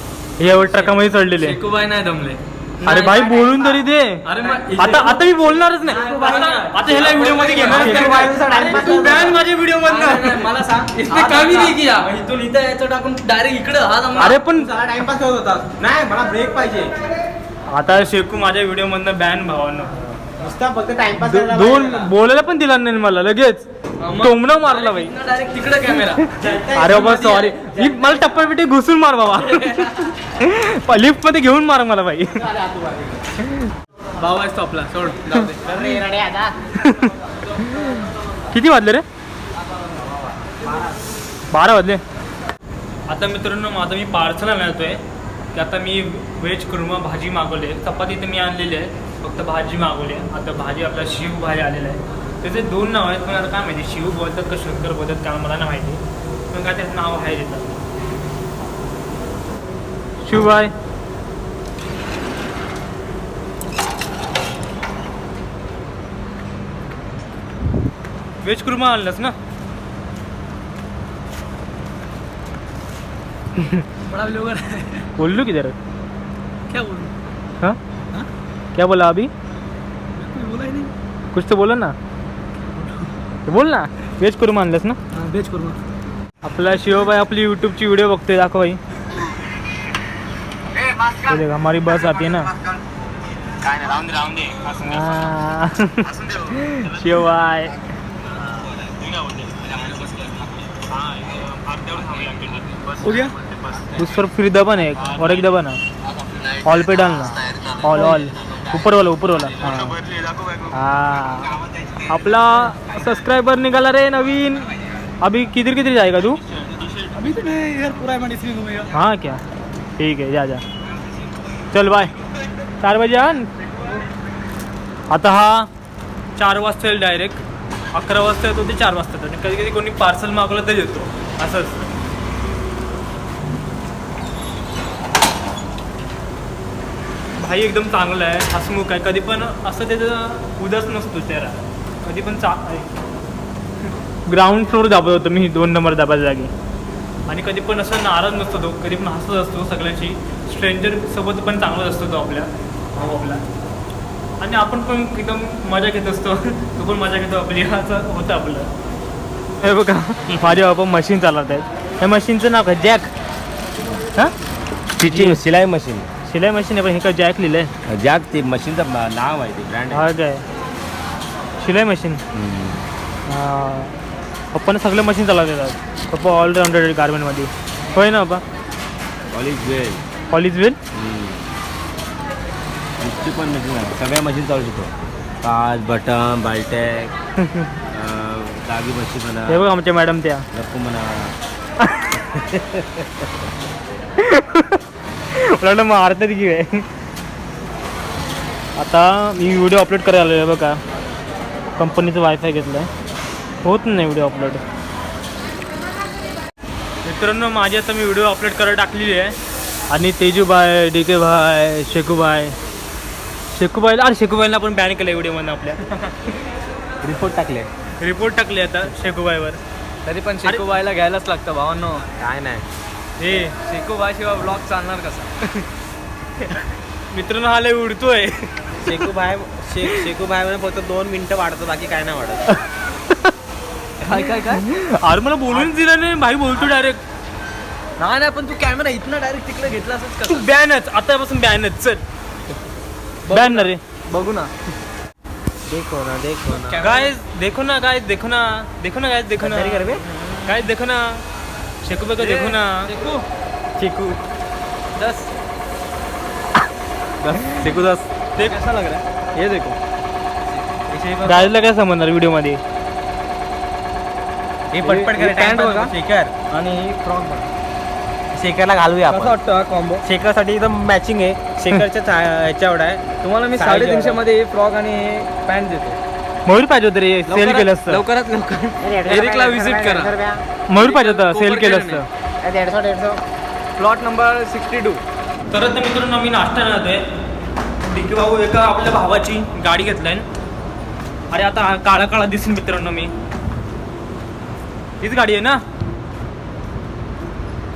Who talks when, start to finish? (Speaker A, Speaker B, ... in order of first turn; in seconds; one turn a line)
Speaker A: 0.4-1.6
Speaker B: 0.5-3.6
Speaker A: 2.8-4.2
Speaker B: 4.2-5.2
Speaker A: 4.8-10.4
Speaker B: 5.8-8.8
Speaker C: 7.5-9.3
Speaker B: 9.8-14.3
Speaker C: 11.0-11.8
Speaker A: 14.2-14.7
Speaker C: 14.2-17.0
Speaker A: 17.7-19.9
Speaker C: 20.4-22.1
Speaker A: 21.2-25.1
Speaker B: 24.0-26.2
Speaker C: 26.4-28.0
Speaker A: 26.7-32.5
Speaker B: 29.6-29.9
Speaker C: 32.7-33.0
Speaker A: 33.4-33.7
Speaker B: 34.2-35.8
Speaker C: 35.6-36.5
Speaker A: 36.8-39.0
Speaker A: 41.5-42.0
Speaker A: 43.1-45.0
Speaker A: 45.5-57.7
Speaker A: 60.2-60.7
Speaker A: 68.4-69.3
Speaker A: 73.6-73.8
Speaker B: 74.1-75.1
Speaker A: 75.2-75.8
Speaker B: 76.7-77.1
Speaker A: 78.8-79.3
Speaker B: 80.2-80.9
Speaker A: 81.3-81.9
Speaker B: 82.8-83.1
Speaker A: 83.5-85.0
Speaker B: 85.1-85.8
Speaker A: 86.4-88.8
Speaker A: 91.1-92.5
Speaker D: 93.8-94.5
Speaker A: 94.5-97.8
Speaker D: 101.1-102.8
Speaker B: 103.0-103.4
Speaker A: 103.9-105.8
Speaker A: 106.6-110.0
Speaker A: 110.7-116.4
Speaker B: 116.9-118.9
Speaker A: 118.9-119.4
Speaker A: 120.0-120.6
Speaker A: 121.7-122.1
Speaker A: 122.8-123.5
Speaker A: 125.1-125.7
Speaker A: 126.4-127.4
Speaker A: 127.9-131.9
Speaker A: 137.4-142.9
Speaker A: 144.3-146.5
Speaker A: 147.3-153.4
Speaker A: 154.4-158.7
Speaker A: 159.6-163.1
Speaker E: 165.0-166.1
Speaker A: 165.0-165.4
Speaker A: 166.2-167.7
Speaker E: 167.9-170.1
Speaker A: 169.9-170.4
Speaker A: 171.6-172.2
Speaker E: 172.3-172.8
Speaker A: 173.3-173.9
Speaker A: 174.5-178.4
Speaker E: 179.3-180.0
Speaker A: 180.3-180.8
Speaker E: 180.9-181.4
Speaker E: 183.0-184.9
Speaker E: 185.4-187.1
Speaker A: 187.4-187.7
Speaker E: 187.9-189.7
Speaker A: 189.5-190.4
Speaker E: 190.5-191.3
Speaker E: 192.4-193.1
Speaker A: 194.2-196.8
Speaker A: 198.8-200.8
Speaker A: 201.8-202.9
Speaker A: 203.6-204.6
Speaker A: 207.0-209.4
Speaker A: 209.9-212.6
Speaker A: 213.5-216.0
Speaker C: 217.0-217.7
Speaker A: 218.0-219.6
Speaker B: 220.1-222.1
Speaker C: 222.1-222.6
Speaker A: 223.2-223.6
Speaker B: 223.6-225.3
Speaker A: 227.1-228.5
Speaker C: 228.8-232.5
Speaker B: 234.0-234.6
Speaker A: 234.1-237.0
Speaker B: 238.0-240.4
Speaker A: 240.2-242.0
Speaker B: 243.3-244.5
Speaker A: 243.3-243.8
Speaker C: 245.7-246.9
Speaker B: 246.5-247.1
Speaker A: 246.8-251.2
Speaker C: 249.4-250.0
Speaker A: 251.8-252.9
Speaker B: 252.2-253.2
Speaker B: 253.8-254.1
Speaker B: 254.9-255.3
Speaker B: 257.2-259.8
Speaker C: 260.9-261.5
Speaker A: 261.2-262.6
Speaker C: 264.7-266.3
Speaker B: 264.8-265.9
Speaker B: 266.5-267.5
Speaker C: 268.3-269.4
Speaker B: 269.1-270.1
Speaker C: 270.0-273.0
Speaker B: 273.2-276.0
Speaker C: 273.5-274.2
Speaker A: 276.4-278.0
Speaker B: 277.3-280.1
Speaker D: 278.9-280.1
Speaker C: 278.9-280.4
Speaker A: 280.7-282.1
Speaker B: 280.7-282.0
Speaker D: 282.4-283.1
Speaker C: 282.4-283.2
Speaker B: 283.8-285.0
Speaker A: 285.5-287.0
Speaker A: 287.8-290.2
Speaker A: 291.3-293.1
Speaker A: 295.0-295.6